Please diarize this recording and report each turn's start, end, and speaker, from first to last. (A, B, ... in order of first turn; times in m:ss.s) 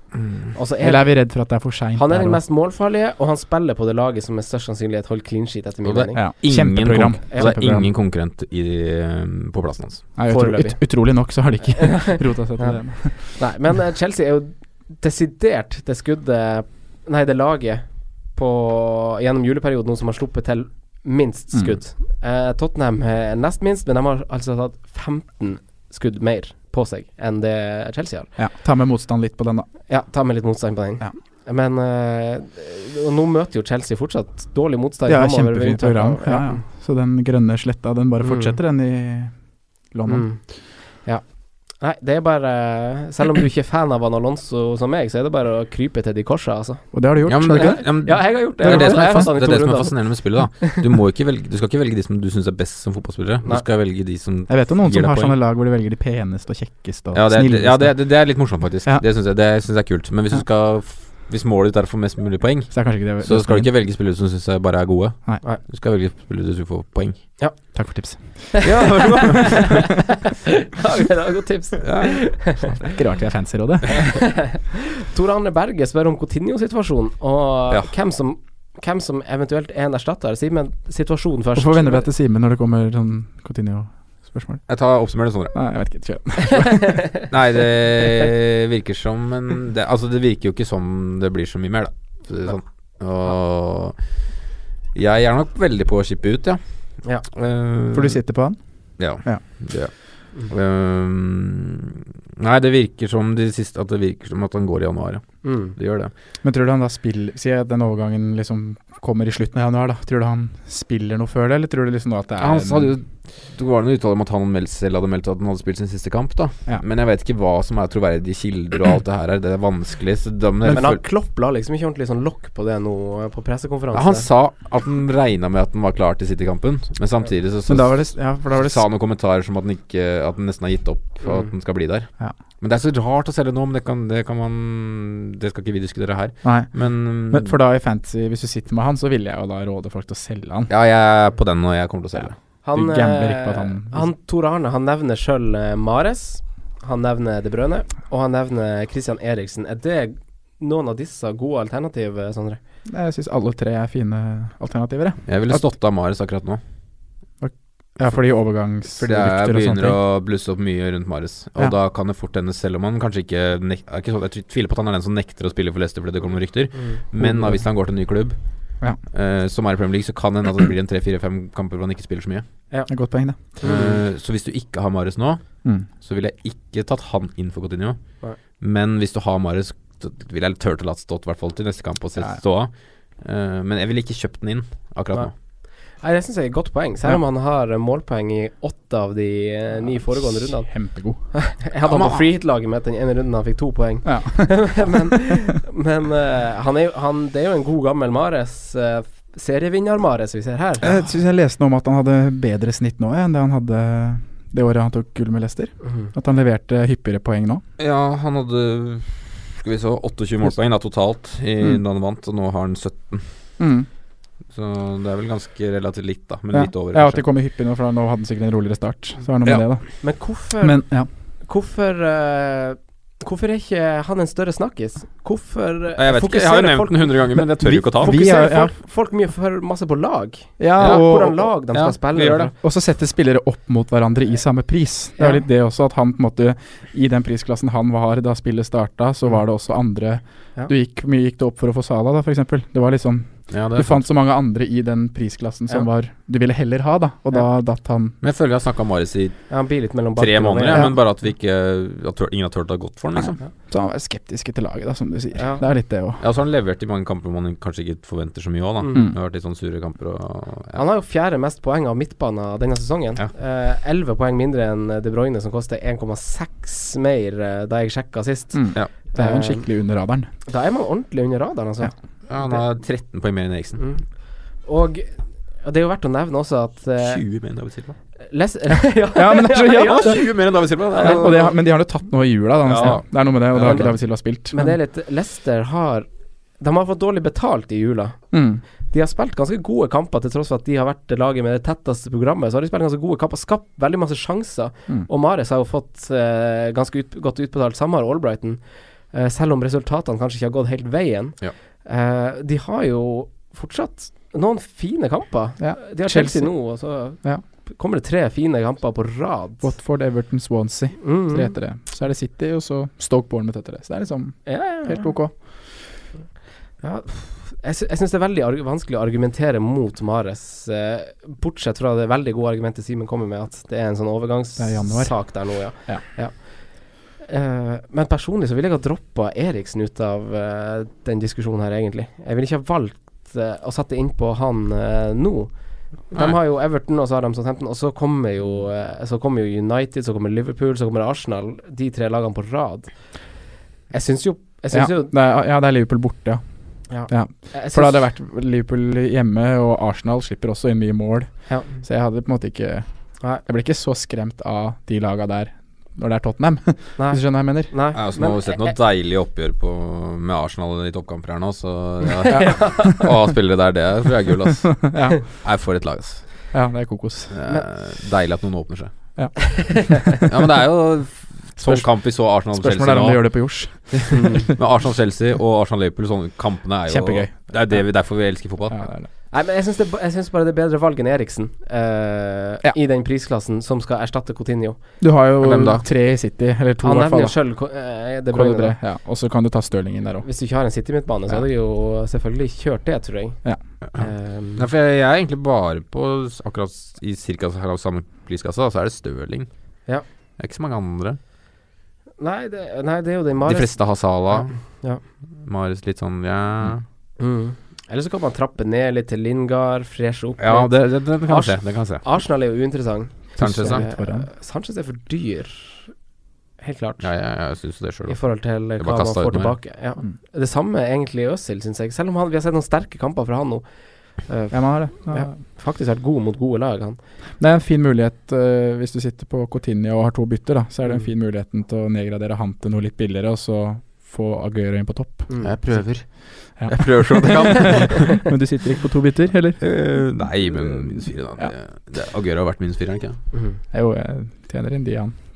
0:00.1-0:00.5 A
0:00.5-0:01.3 B
0:00.8-0:02.4 C
0:02.0-0:06.2 B
0:05.8-0:10.1 A
0:06.2-0:07.9 C
0:07.3-0:07.5 B
0:10.2-0:13.4 C
0:10.3-0:11.0 B
0:11.8-0:28.3 B
0:21.5-0:21.8 C
0:28.4-0:29.9 C
0:29.9-0:36.6 B
0:35.1-0:40.3 C
0:38.2-0:38.6 B
0:40.1-0:50.8 B
0:46.9-0:49.4 C
0:47.3-0:55.4 A
0:54.5-0:59.0 C
0:57.1-1:07.4 A
1:02.7-1:03.7 C
1:07.4-1:07.7 B
1:07.7-1:08.7 C
1:08.6-1:12.8 B
1:08.6-1:09.7 A
1:11.8-1:12.4 A
1:12.8-1:14.4 C
1:13.9-1:22.1 B
1:21.6-1:24.7 C
1:24.7-1:25.6 A
1:25.5-1:27.0 C
1:26.7-1:27.3 B
1:27.3-1:34.2 A
1:34.9-1:38.2 A
1:37.9-1:39.4 C
1:39.0-1:46.1 A
1:45.4-1:45.7 B
1:46.4-1:52.9 C
1:52.4-2:01.0 A
2:00.7-2:04.3 B
2:03.9-2:17.5 A
2:07.7-2:08.8 C
2:16.4-2:20.7 C
2:20.7-2:22.4 A
2:22.2-2:24.1 C
2:22.6-2:32.6 B
2:32.9-2:35.6 C
2:35.3-2:36.6 A
2:37.4-2:40.0 C
2:39.0-2:52.5 A
2:46.7-2:47.0 B
2:47.2-2:47.6 C
2:52.9-2:53.4 C
2:53.6-2:54.0 B
2:53.6-3:05.3 A
3:05.1-3:20.9 B
3:10.2-3:11.2 C
3:11.8-3:12.2 A
3:14.0-3:15.0 C
3:20.8-3:27.6 C
3:25.8-3:26.1 B
3:27.8-3:33.3 A
3:33.6-3:33.9 C
3:34.5-3:37.2 A
3:36.5-3:41.1 C
3:40.0-3:40.8 B
3:41.4-3:47.4 B
3:46.0-3:48.2 A
3:47.6-3:48.8 C
3:48.0-3:52.5 B
3:50.6-3:51.5 C
3:50.8-3:51.1 A
3:51.7-3:52.5 A
3:52.6-4:08.2 C
4:03.5-4:04.0 A
4:08.2-4:13.4 A
4:09.5-4:10.9 B
4:10.7-4:11.0 C
4:13.2-4:16.2 C
4:15.4-4:15.6 B
4:16.2-4:20.8 A
4:18.8-4:19.1 B
4:20.8-4:29.7 B
4:28.5-4:30.3 C
4:30.5-4:32.6 B
4:32.3-4:33.8 A
4:33.8-4:34.1 B
4:34.6-4:37.2 B
4:37.0-4:38.0 A
4:38.2-4:40.4 B
4:38.7-4:40.3 C
4:39.9-4:41.5 A
4:40.9-4:41.6 B
4:41.0-4:44.8 C
4:42.7-4:44.0 A
4:43.6-4:43.9 B
4:44.5-4:46.1 B
4:46.6-5:09.7 B
4:48.3-4:48.6 C
5:05.6-5:07.4 C
5:09.6-5:15.4 C
5:11.0-5:11.5 B
5:14.4-5:15.2 B
5:16.8-5:43.4 B
5:24.6-5:26.0 C
5:36.1-5:36.4 A
5:43.9-5:45.1 B
5:44.7-5:46.4 C
5:46.9-5:48.0 B
5:47.1-5:52.9 C
5:51.5-5:51.8 B
5:53.4-5:57.7 C
5:57.0-5:58.8 B
5:57.9-6:06.3 A
6:02.3-6:03.1 B
6:02.3-6:02.6 C
6:04.8-6:05.2 C
6:06.5-6:07.3 C
6:07.3-6:08.9 A
6:09.2-6:10.3 C
6:10.3-6:18.8 A
6:11.6-6:11.9 C
6:12.5-6:14.6 C
6:14.1-6:14.5 B
6:16.9-6:17.8 C
6:18.7-6:19.1 C
6:19.3-6:24.8 B
6:25.0-6:27.4 C
6:25.4-6:25.9 A
6:26.8-6:28.8 B
6:28.3-6:30.3 C
6:30.2-6:33.4 B
6:33.9-6:39.5 A
6:34.0-6:34.6 B
6:40.4-6:41.2 A
6:42.2-6:45.0 B
6:43.5-6:46.8 A
6:47.2-6:55.9 B
6:50.4-6:52.1 A
6:53.4-6:54.3 C
6:53.4-6:53.8 A
6:56.6-6:57.1 B
6:57.0-6:59.6 A
6:58.1-7:07.0 B
7:04.5-7:05.4 C
7:07.4-7:15.8 C
7:15.3-7:15.6 B
7:15.4-7:18.2 A
7:16.6-7:19.7 C
7:19.6-7:23.2 A
7:23.3-7:23.6 B
7:23.7-7:25.2 C